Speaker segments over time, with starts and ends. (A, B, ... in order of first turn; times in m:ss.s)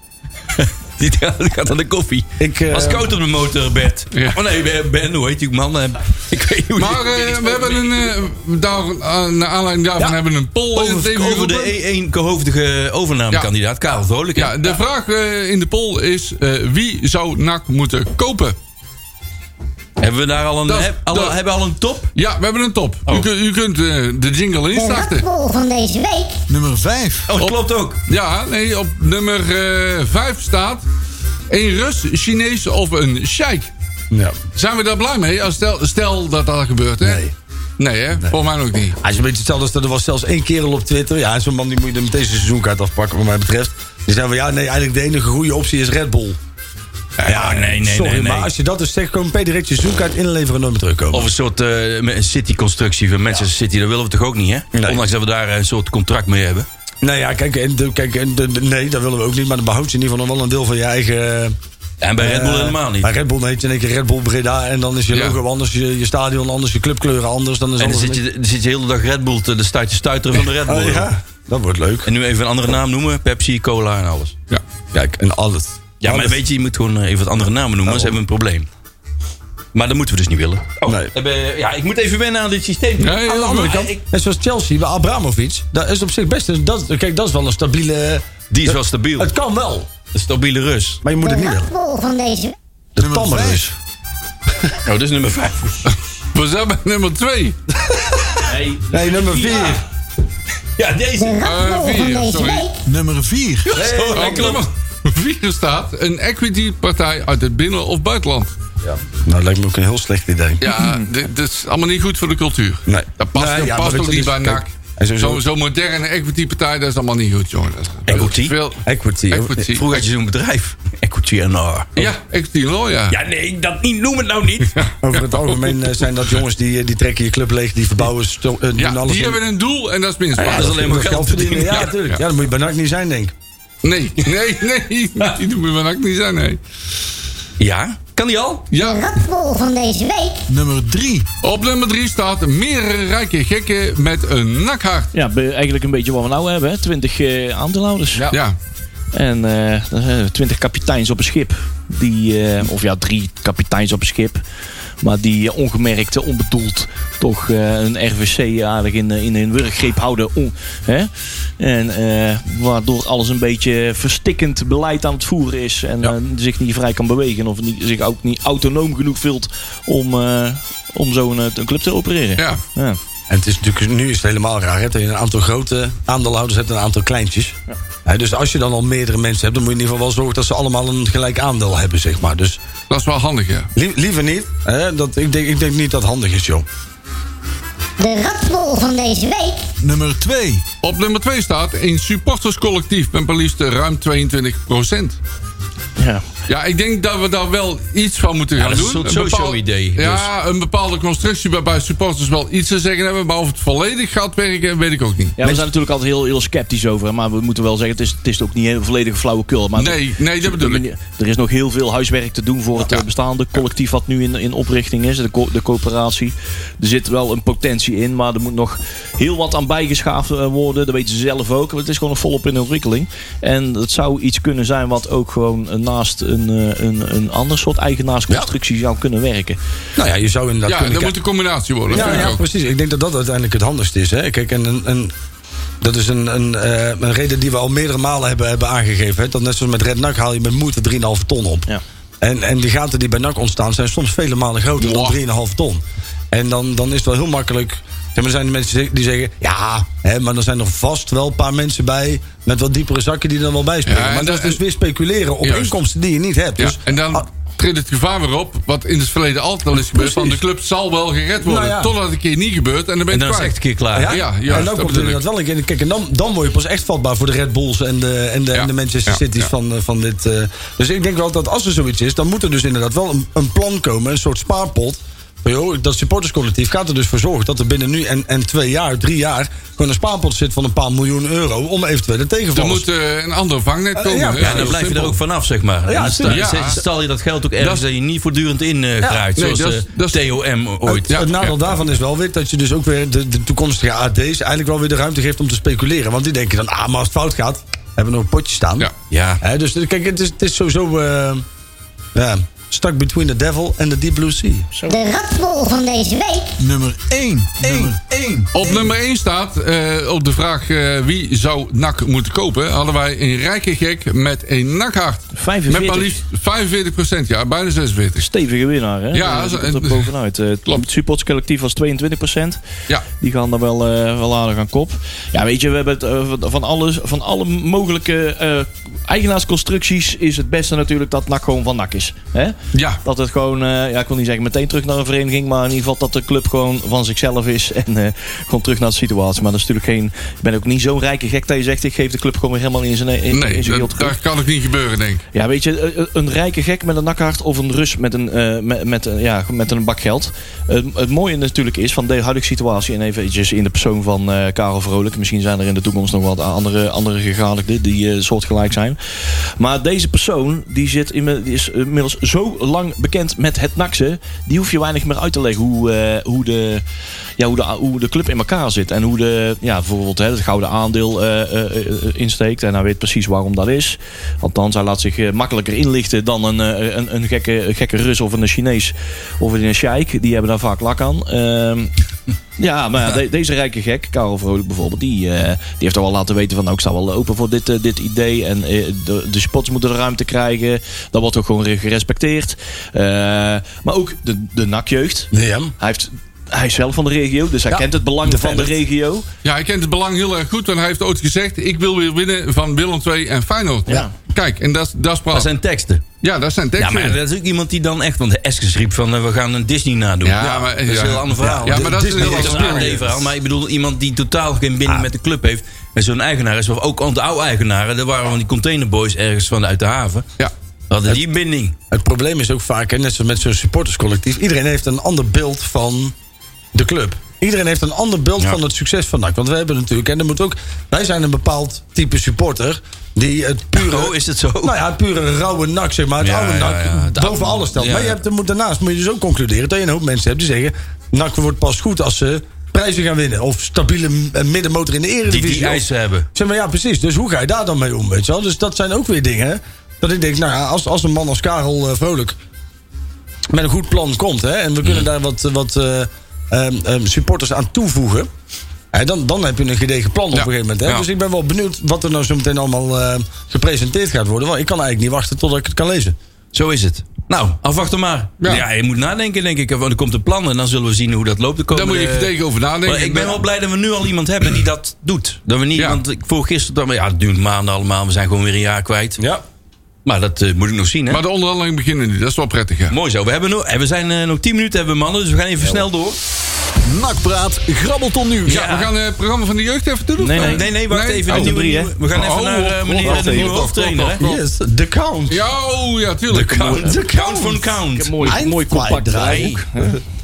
0:00.5-0:07.8 A
0:02.4-0:03.2 B
0:04.1-0:04.4 C
0:06.8-0:11.7 C
0:10.7-0:14.8 A
0:14.3-0:18.6 C
0:20.0-0:22.1 A
0:20.7-0:21.4 C
0:22.1-0:25.2 C
0:24.7-0:26.4 D
0:26.5-0:27.3 E
0:27.3-0:28.0 A
0:28.1-0:30.8 C
0:31.5-0:33.7 C
0:34.1-0:34.4 B
0:34.5-0:37.2 C
0:37.0-0:37.3 B
0:37.8-0:39.0 C
0:39.0-0:46.4 B
0:47.2-0:47.5 C
0:47.2-0:51.3 B
0:47.3-0:48.5 A
0:51.1-0:56.7 A
0:54.7-0:55.0 B
0:57.0-1:01.6 B
1:02.0-1:03.1 A
1:02.2-1:08.2 B
1:05.1-1:05.4 C
1:07.8-1:11.1 A
1:10.3-1:12.1 B
1:12.0-1:14.3 A
1:14.9-1:16.4 B
1:16.0-1:18.7 A
1:17.8-1:18.2 B
1:19.7-1:24.0 A
1:20.8-1:21.1 B
1:23.0-1:23.8 C
1:23.2-1:29.9 B
1:28.5-1:29.3 A
1:30.1-1:31.0 A
1:31.0-1:31.7 B
1:31.2-1:32.5 D
1:32.9-1:33.7 B
1:33.0-1:33.7 E
1:34.8-1:35.9 A
1:35.8-1:37.6 C
1:38.4-1:39.8 F
1:38.9-1:39.8 B
1:40.8-1:41.4 A
1:41.2-1:42.8 D
1:41.4-1:42.7 C
1:42.8-1:43.7 E
1:43.7-1:44.6 A
1:43.7-1:44.6 B
1:44.1-1:48.5 C
1:48.9-1:50.7 B
1:50.6-2:00.0 C
1:52.9-1:55.4 B
1:58.1-1:58.5 A
1:58.8-1:59.6 B
1:59.6-2:02.1 A
2:02.0-2:03.2 C
2:03.1-2:04.9 A
2:04.8-2:05.7 C
2:05.0-2:09.4 B
2:08.8-2:11.0 C
2:10.4-2:11.9 A
2:10.4-2:13.3 B
2:11.7-2:12.2 C
2:13.8-2:16.6 C
2:17.6-2:18.7 A
2:18.7-2:19.1 C
2:18.7-2:20.4 D
2:20.5-2:21.3 E
2:21.4-2:25.1 C
2:25.1-2:28.3 F
2:28.3-2:28.6 C
2:29.1-2:34.4 F
2:35.0-2:53.0 F
2:53.3-3:02.6 B
3:02.9-3:03.7 C
3:03.7-3:06.6 B
3:08.0-3:09.7 D
3:09.8-3:10.6 E
3:10.8-3:15.2 C
3:16.0-3:16.2 F
3:16.5-3:25.4 C
3:18.6-3:20.3 A
3:25.4-3:49.6 F
3:29.8-3:30.8 C
3:32.8-3:33.0 C
3:50.0-3:51.2 B
3:50.6-3:52.4 C
3:51.9-3:55.1 B
3:52.0-3:52.2 F
3:55.8-4:01.7 B
4:02.2-4:17.2 B
4:04.8-4:05.2 C
4:13.8-4:14.6 C
4:15.4-4:15.7 C
4:16.6-4:25.2 C
4:19.8-4:20.4 B
4:21.4-4:21.9 B
4:23.1-4:24.7 A
4:23.9-4:42.9 B
4:28.5-4:29.5 C
4:42.5-4:45.2 C
4:43.9-4:45.1 B
4:44.4-4:51.2 A
4:45.8-4:46.7 B
4:46.2-4:46.8 C
4:47.6-4:47.8 C
4:49.0-4:49.3 B
4:49.4-4:50.3 C
4:50.8-4:58.9 B
4:51.1-4:51.5 C
4:59.1-4:59.4 A
4:59.4-5:01.4 B
5:02.1-5:04.7 B
5:04.9-5:06.5 D
5:06.6-5:08.5 E
5:08.5-5:18.3 C
5:15.4-5:16.2 F
5:18.2-5:22.6 F
5:19.1-5:20.1 C
5:23.2-5:44.2 F
5:32.7-5:33.0 C
5:43.3-5:45.2 C
5:45.3-6:06.8 F
6:07.4-6:21.9 F
6:22.6-6:39.2 F
6:35.3-6:35.7 B
6:37.7-6:38.8 B
6:39.4-6:45.5 C
6:45.3-6:46.0 A
6:46.2-6:47.2 C
6:46.8-7:00.3 A
6:50.2-6:53.1 C
6:51.4-6:53.2 B
7:00.9-7:01.8 A
7:01.9-7:06.1 B
7:06.7-7:32.4 B
7:13.8-7:14.7 A
7:16.2-7:18.2 A
7:25.3-7:26.3 A
7:33.5-7:38.3 B
7:38.9-7:46.2 B
7:40.3-7:41.0 C
7:46.5-7:52.3 A
7:48.4-7:48.6 C
7:51.7-7:53.4 C
7:52.8-7:59.2 A
7:55.8-7:56.0 C
7:59.2-7:59.4 B
8:00.0-8:01.2 A
8:01.1-8:03.0 C
8:02.9-8:06.2 A
8:06.8-8:08.6 E
8:08.4-8:08.9 A
8:08.4-8:14.0 C
8:10.2-8:10.6 F
8:10.2-8:14.4 A
8:11.3-8:11.9 F
8:13.0-8:14.1 F
8:14.2-8:15.5 B
8:15.3-8:16.9 C
8:16.3-8:18.4 A
8:16.8-8:19.5 B
8:17.9-8:20.0 F
8:19.2-8:19.6 A